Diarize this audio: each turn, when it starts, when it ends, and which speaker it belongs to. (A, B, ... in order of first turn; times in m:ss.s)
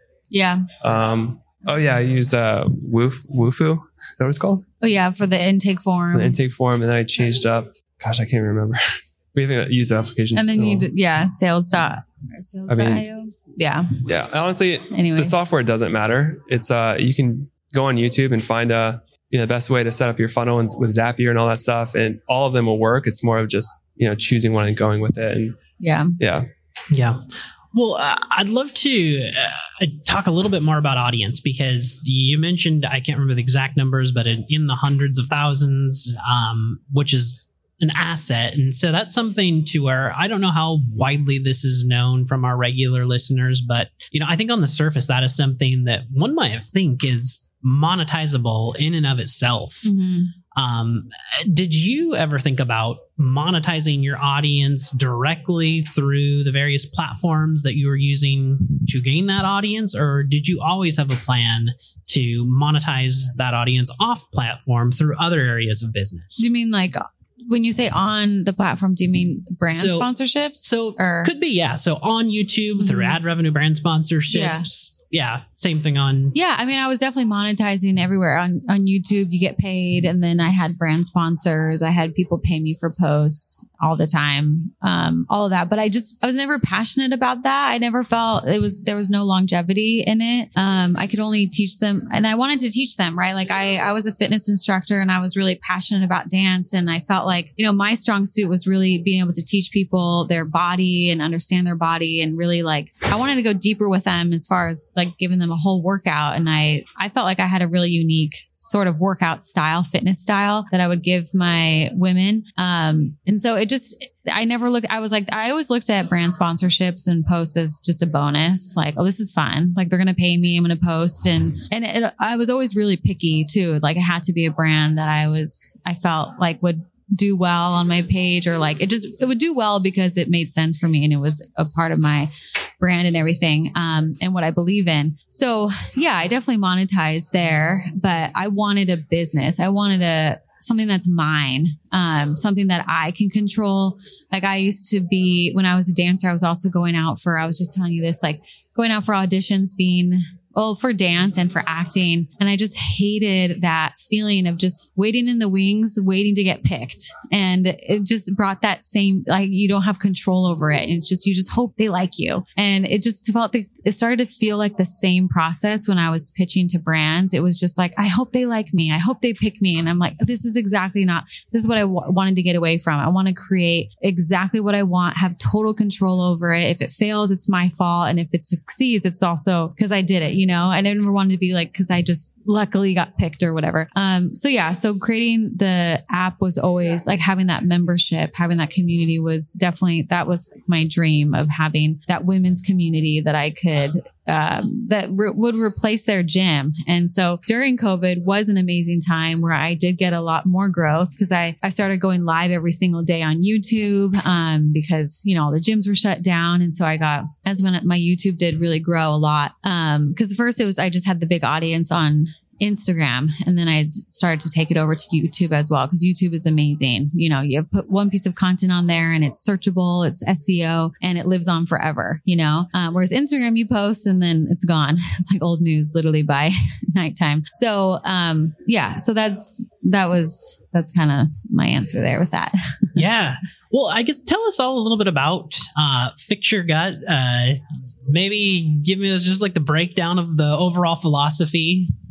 0:00.3-0:00.7 A
0:00.8-0:04.6 B
0:04.8-0:06.4 A
0:06.1-0:08.8 B
0:09.3-0:10.9 B
0:10.3-0:14.0 A
0:12.7-0:13.0 B
0:14.0-0:25.6 B
0:14.9-0:15.4 A
0:25.8-0:26.2 A
0:26.2-0:26.5 B
0:26.9-0:49.9 C
0:49.9-0:50.3 A
0:50.6-1:06.5 C
1:06.4-1:11.3 A
1:09.7-1:10.1 C
1:10.6-1:16.4 C
1:12.8-1:13.2 A
1:14.3-1:14.6 A
1:16.3-3:53.0 A
3:53.0-4:01.9 C